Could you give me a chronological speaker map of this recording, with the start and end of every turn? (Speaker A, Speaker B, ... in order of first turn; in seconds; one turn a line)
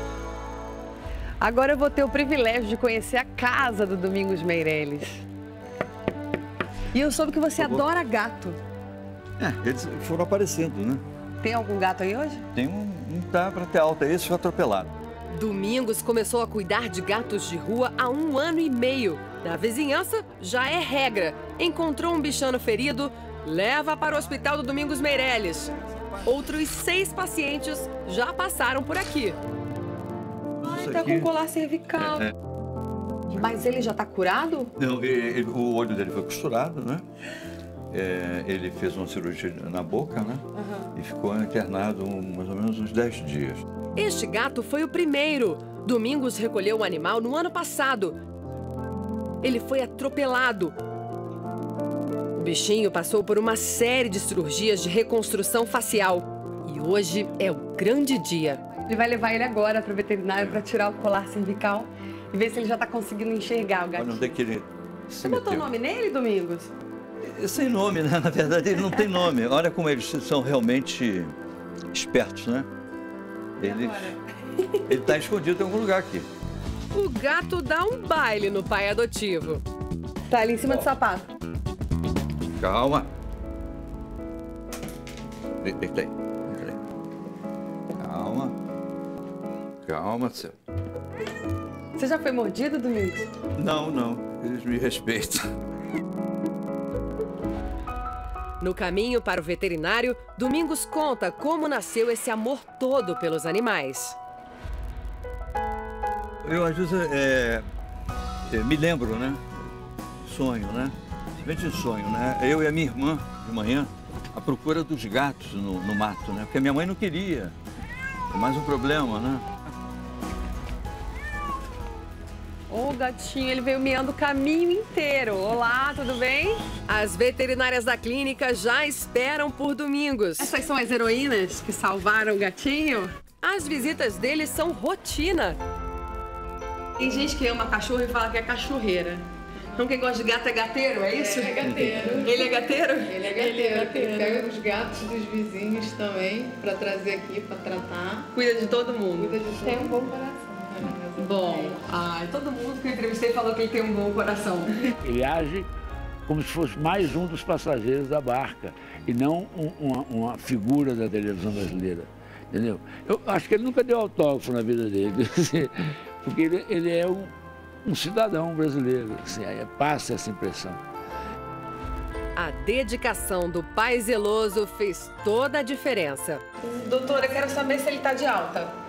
Speaker A: 1.4-5.2
Speaker A: 6.9-8.6
Speaker B: 7.6-7.9
Speaker B: 9.4-11.0
Speaker A: 11.4-12.4
Speaker B: 12.5-14.9
Speaker C: 15.3-25.7
Speaker C: 26.2-29.4
Speaker B: 30.6-31.3
Speaker A: 30.7-32.3
Speaker B: 31.9-32.3
Speaker A: 33.4-34.7
Speaker B: 34.8-37.0
Speaker B: 37.9-40.4
Speaker A: 40.6-40.8
Speaker B: 40.9-43.6
Speaker C: 44.0-48.2
Speaker C: 49.4-50.7
Speaker C: 52.4-58.6
Speaker A: 58.9-64.3
Speaker B: 64.0-65.7
Speaker A: 65.2-66.7
Speaker B: 67.2-71.3
Speaker B: 71.9-72.7
Speaker B: 73.6-74.1
Speaker A: 73.6-74.1
Speaker B: 74.9-76.2
Speaker C: 76.9-79.6
Speaker A: 80.3-81.2
Speaker B: 80.6-80.9
Speaker B: 82.5-83.1
Speaker B: 85.6-86.8
Speaker B: 88.0-88.5
Speaker B: 89.8-90.5
Speaker A: 92.0-93.2
Speaker B: 93.6-95.4
Speaker C: 98.6-104.2
Speaker B: 106.4-107.6
Speaker B: 108.5-109.4
Speaker B: 110.2-117.5
Speaker B: 118.3-119.4
Speaker A: 122.7-126.6
Speaker C: 126.9-130.5
Speaker A: 130.4-133.1
Speaker C: 133.4-135.6
Speaker A: 137.0-139.2
Speaker A: 139.8-144.8
Speaker D: 141.2-148.3
Speaker A: 148.3-150.0
Speaker D: 149.2-151.8
Speaker A: 151.2-154.9
Speaker E: 155.0-155.7
Speaker E: 156.3-167.3
Speaker E: 167.8-170.8
Speaker C: 172.3-176.4
Speaker A: 176.6-178.7